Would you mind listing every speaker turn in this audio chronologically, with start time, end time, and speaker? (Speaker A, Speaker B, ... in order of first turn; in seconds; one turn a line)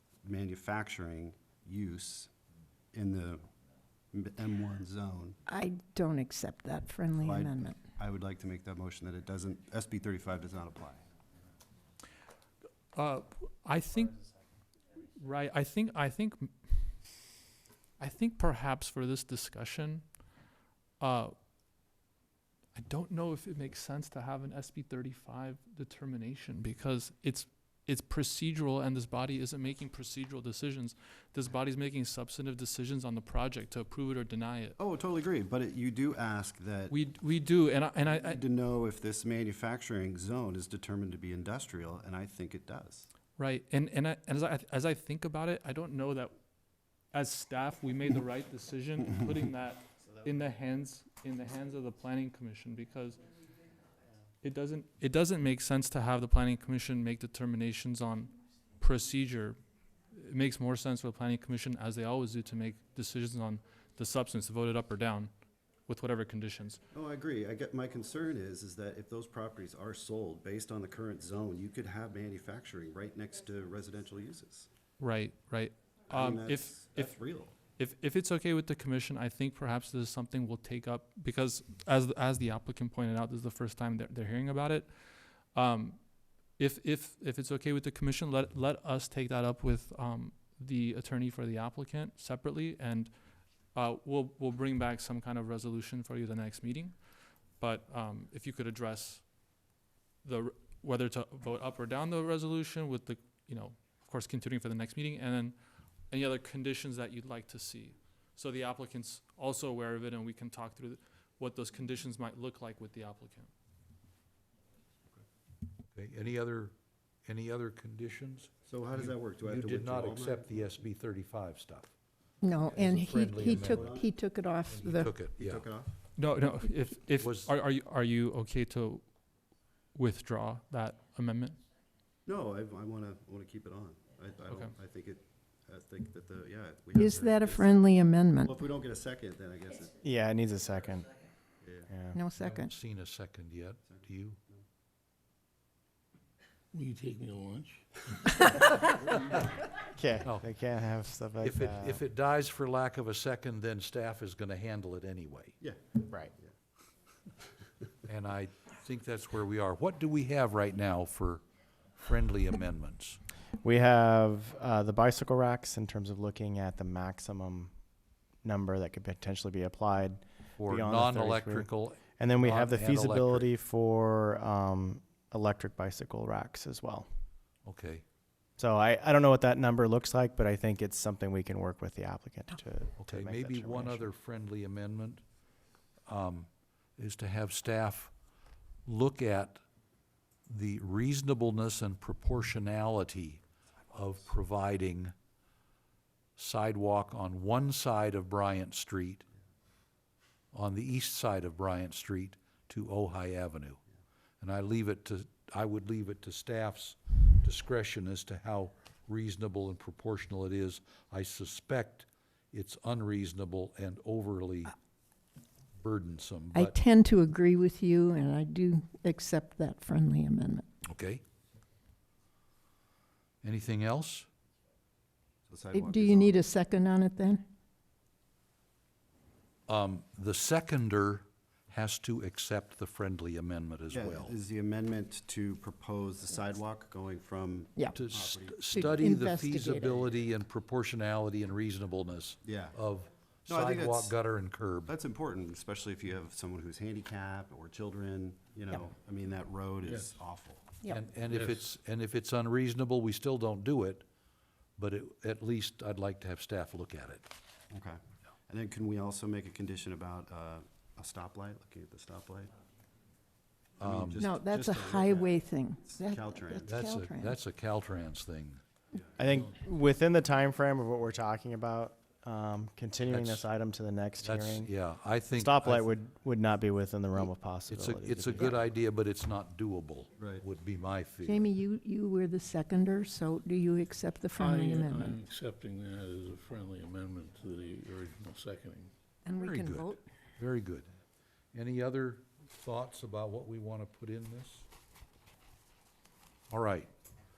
Speaker A: 0.2-2.3
Speaker A: 2.9-3.4
Speaker A: 4.1-5.4
Speaker B: 5.5-7.8
Speaker A: 7.2-11.0
Speaker C: 12.9-14.3
Speaker C: 15.2-17.2
Speaker C: 18.0-20.2
Speaker C: 21.0-21.3
Speaker C: 22.8-34.8
Speaker A: 34.8-37.0
Speaker C: 36.9-38.4
Speaker A: 38.1-43.1
Speaker C: 43.4-46.4
Speaker C: 47.0-53.2
Speaker C: 54.4-59.6
Speaker C: 60.1-66.8
Speaker A: 66.9-74.7
Speaker C: 75.0-77.2
Speaker A: 76.1-77.6
Speaker C: 77.8-85.0
Speaker C: 85.5-99.3
Speaker C: 100.2-105.6
Speaker C: 106.1-113.5
Speaker D: 115.9-116.7
Speaker D: 117.2-122.0
Speaker A: 118.7-120.7
Speaker B: 122.4-125.2
Speaker D: 122.7-124.0
Speaker A: 123.4-124.1
Speaker D: 124.7-125.7
Speaker A: 125.3-126.0
Speaker C: 126.2-129.1
Speaker D: 127.2-127.5
Speaker C: 129.9-131.6
Speaker A: 132.3-140.0
Speaker B: 136.9-138.6
Speaker E: 140.0-141.1
Speaker A: 141.6-141.9
Speaker E: 141.9-142.2
Speaker B: 142.1-142.7
Speaker D: 142.4-144.4
Speaker A: 143.9-144.6
Speaker F: 146.7-148.3
Speaker B: 148.5-148.8
Speaker E: 149.9-152.0
Speaker D: 151.4-155.6
Speaker A: 155.6-156.5
Speaker D: 158.1-163.2
Speaker E: 163.6-167.7
Speaker E: 168.4-177.1
Speaker D: 170.6-173.5
Speaker D: 177.7-178.0
Speaker E: 178.6-184.1
Speaker D: 183.0-185.2
Speaker D: 186.1-188.1
Speaker D: 188.9-189.6
Speaker D: 190.5-195.1
Speaker D: 196.4-199.2
Speaker D: 200.5-203.8
Speaker D: 204.4-214.7
Speaker D: 215.8-216.8
Speaker B: 216.5-220.7
Speaker D: 220.9-221.2
Speaker D: 223.4-224.3
Speaker A: 225.5-226.4
Speaker B: 225.7-227.5
Speaker D: 229.7-234.4
Speaker A: 233.9-239.1
Speaker B: 237.8-238.0
Speaker D: 237.9-244.9
Speaker B: 238.7-240.1
Speaker A: 242.4-242.8
Speaker A: 243.5-244.2
Speaker A: 244.9-250.7
Speaker F: 249.8-250.2
Speaker D: 250.9-254.1
Speaker F: 251.2-251.7
Speaker D: 254.8-257.3
Speaker A: 257.7-262.5
Speaker D: 263.8-264.2
Speaker A: 263.8-266.8
Speaker B: 264.2-267.4
Speaker D: 266.7-268.6
Speaker E: 269.2-274.7
Speaker D: 273.1-273.5
Speaker D: 274.2-275.9
Speaker E: 275.3-278.5
Speaker D: 277.7-281.5
Speaker A: 280.2-280.4
Speaker B: 281.2-285.2
Speaker F: 284.4-288.9
Speaker B: 289.2-290.0
Speaker D: 289.4-290.9
Speaker D: 291.5-294.7
Speaker D: 296.5-296.9